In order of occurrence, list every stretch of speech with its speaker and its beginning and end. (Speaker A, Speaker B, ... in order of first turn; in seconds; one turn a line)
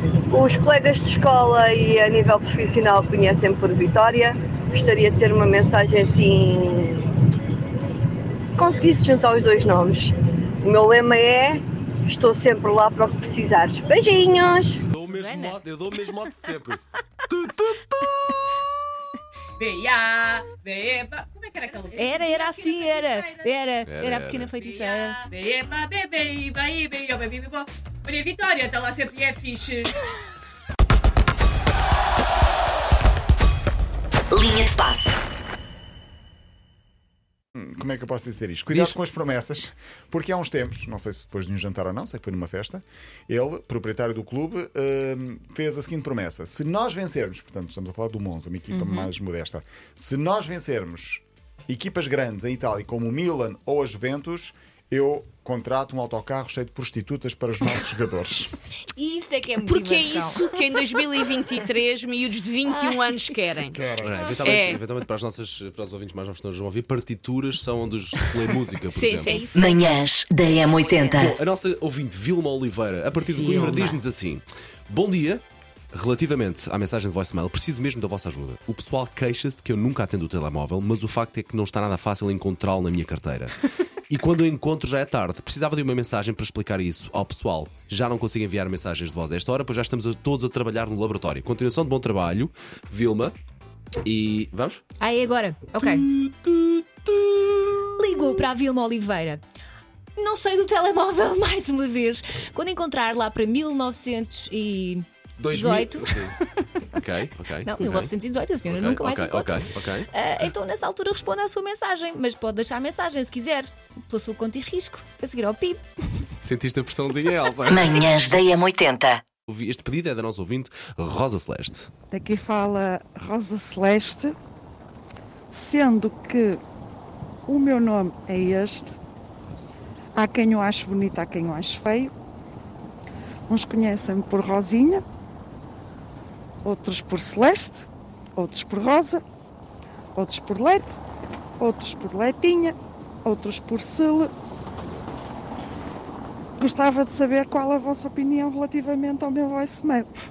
Speaker A: 0.3-7.1
Speaker A: 8.6-14.8
Speaker B: 14.9-18.1
Speaker C: 15.0-15.6
Speaker D: 19.6-23.5
Speaker C: 22.0-25.2
Speaker B: 23.9-24.6
Speaker D: 24.6-29.9
Speaker E: 34.3-35.1
Speaker F: 37.6-58.5
Speaker B: 38.7-39.0
Speaker C: 48.7-49.1
Speaker C: 59.0-60.5
Speaker D: 59.6-63.8
Speaker F: 63.7-64.2
Speaker B: 64.0-69.4
Speaker D: 64.4-64.8
Speaker D: 68.9-69.4
Speaker C: 69.2-71.3
Speaker E: 69.5-71.3
Speaker B: 71.1-83.5
Speaker C: 73.3-74.0
Speaker B: 84.1-93.3
Speaker B: 94.0-94.8
Speaker C: 95.0-96.0
Speaker B: 95.8-98.2
Speaker C: 98.0-99.4
Speaker C: 100.2-107.0
Speaker B: 105.4-106.4
Speaker B: 107.0-108.1
Speaker C: 107.6-115.8
Speaker B: 108.7-110.1
Speaker B: 116.4-118.2
Speaker E: 117.7-119.2
Speaker B: 119.5-121.9
Speaker G: 122.1-124.4
Speaker G: 125.5-126.6
Speaker G: 127.5-129.0
Speaker B: 129.4-129.9
Speaker G: 130.1-132.1
Speaker G: 133.5-135.0
Speaker G: 136.6-139.2
Speaker G: 140.2-141.0
Speaker G: 141.6-144.3
Speaker G: 146.6-150.1